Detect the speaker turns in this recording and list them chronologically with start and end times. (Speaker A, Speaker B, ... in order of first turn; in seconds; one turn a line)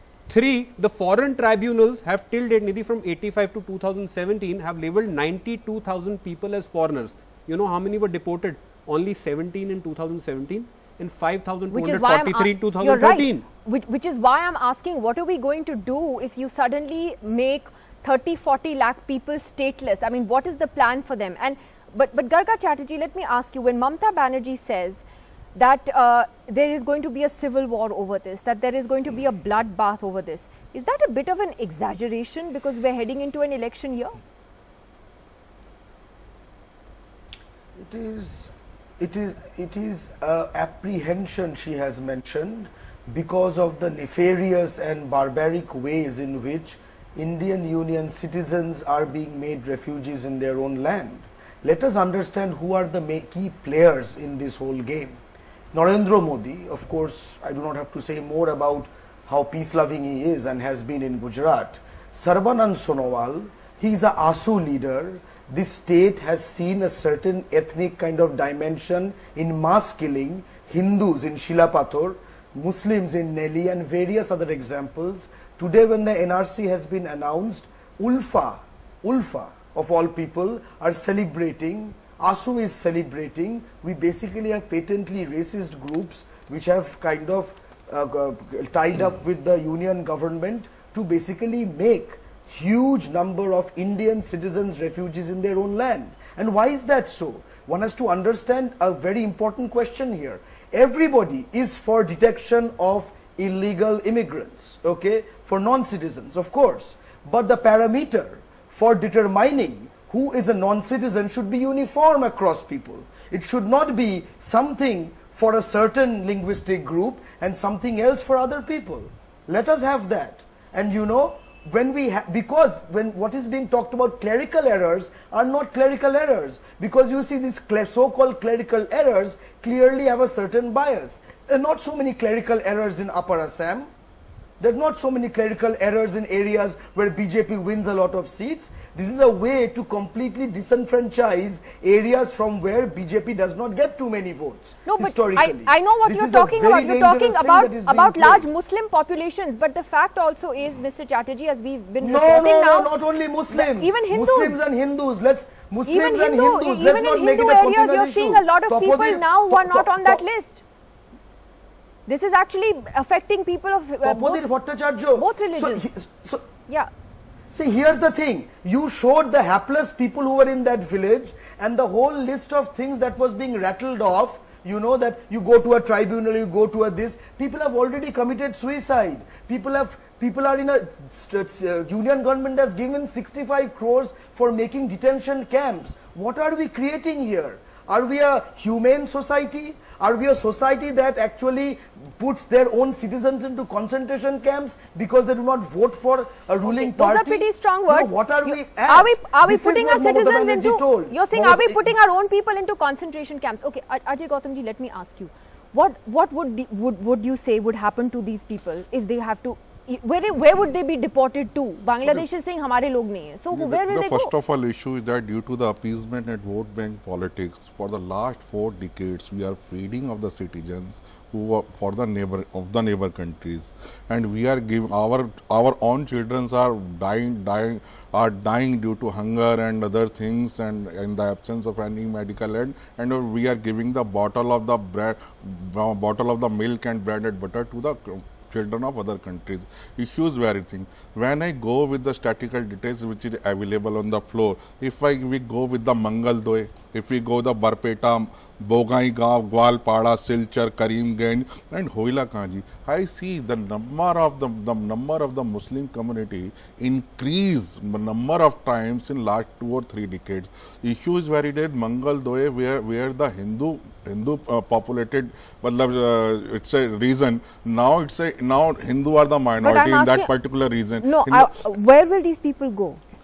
Speaker A: 0.3-13.4
Speaker B: 11.7-25.0
Speaker B: 25.5-34.1
Speaker C: 37.8-55.2
Speaker C: 55.7-133.9
Speaker C: 134.6-148.4
Speaker B: 144.8-152.9
Speaker C: 152.0-160.2
Speaker B: 153.5-154.6
Speaker B: 155.9-160.6
Speaker B: 162.1-164.4
Speaker C: 164.0-166.4
Speaker B: 165.1-165.8
Speaker C: 167.5-201.9
Speaker B: 196.6-214.3
Speaker D: 213.5-271.5
Speaker B: 269.6-270.3
Speaker B: 271.0-273.0